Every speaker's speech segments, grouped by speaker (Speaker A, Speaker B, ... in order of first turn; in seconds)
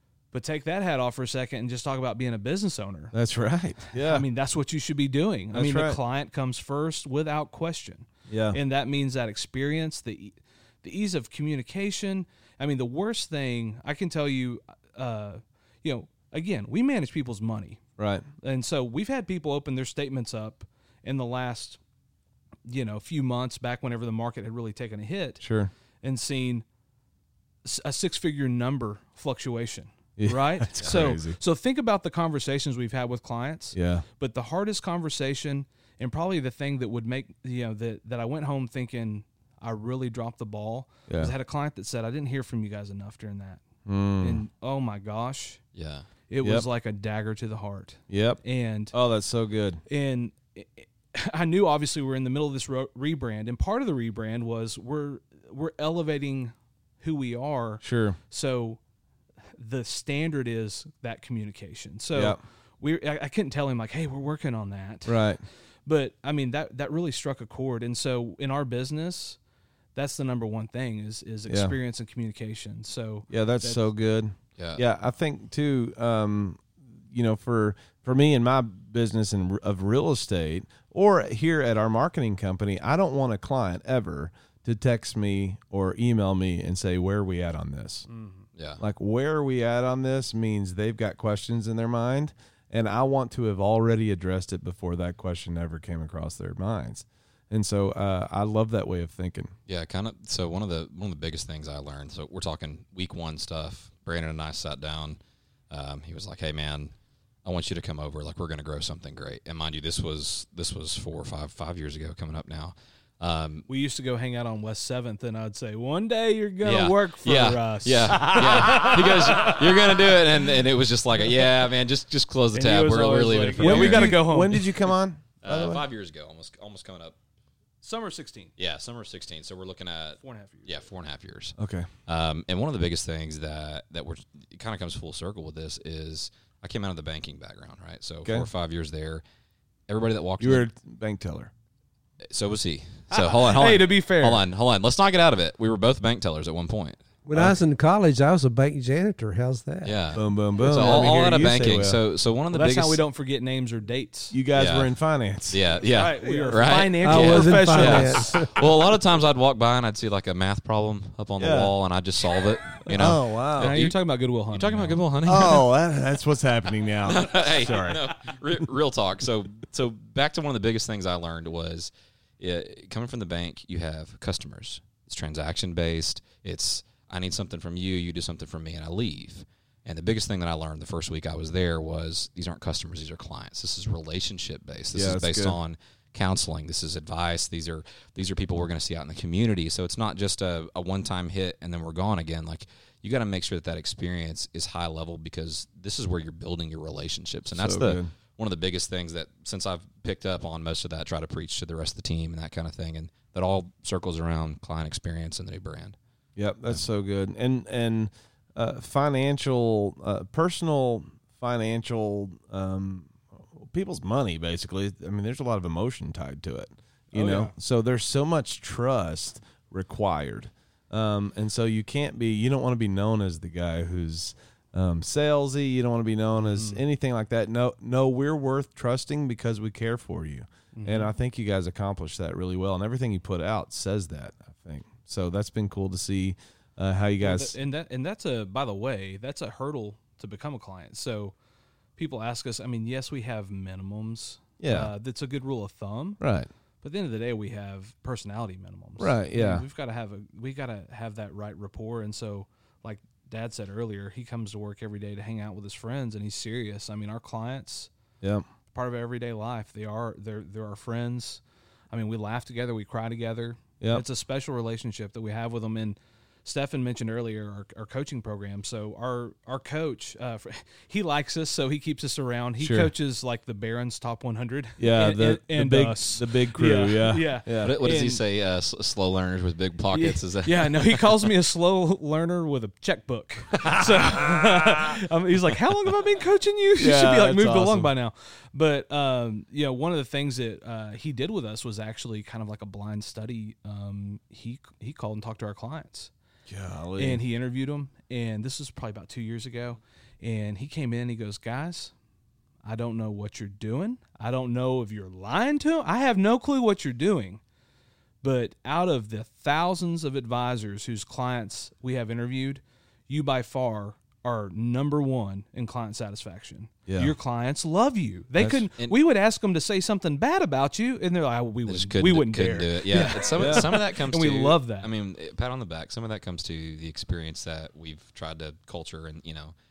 Speaker A: 0.3-3.1, 3.9-17.8, 18.4-21.8, 22.6-25.4, 26.0-26.6, 27.6-43.6, 44.2-45.6, 46.3-49.0, 49.9-58.8, 59.6-69.4, 69.9-73.8, 88.1-88.4, 113.7-120.2, 122.5-124.9, 127.8-128.5, 130.2-130.7, 143.1-144.4, 150.7-151.1, 152.5-154.3, 155.8-158.4, 163.6-165.0, 217.1-217.5, 226.4-226.8, 230.7-231.1, 237.2-241.3, 242.0-246.2, 246.8-257.9, 258.7-278.2, 279.9-296.1, 296.9-301.9, 302.6-307.4, 308.2-324.9
Speaker B: 3.1-4.2, 5.5-6.0, 8.3-8.6, 18.0-18.2, 25.4-25.7, 30.2-31.4, 33.7-34.0, 41.1-41.3, 43.9-44.4, 48.1-48.4, 48.9-49.8, 57.8-58.2, 65.0-65.4, 71.5-71.8, 73.3-88.1, 88.8-99.5, 123.6-125.8, 131.6-131.9, 140.4-141.5, 150.1-152.0, 154.3-155.6, 161.4-161.7, 162.8-163.8, 165.2-168.0, 184.9-185.6, 197.5-198.1, 206.4-237.5, 244.6-244.9, 246.2-246.5, 249.0-249.7, 272.6-272.9, 274.8-277.7, 286.8-287.9, 296.5-297.2, 316.9-317.1, 323.4-323.7
Speaker C: 45.7-46.0, 74.6-74.8, 88.5-88.8, 99.7-105.2, 105.7-106.9, 107.4-113.7, 116.6-124.3, 125.4-127.2, 128.6-139.2, 139.9-140.7, 142.3-147.0, 149.8-153.0, 154.5-154.9, 155.5-165.7, 167.0-205.9, 277.6-281.2, 321.6-329.5
Speaker D: 147.2-150.0, 156.2-158.6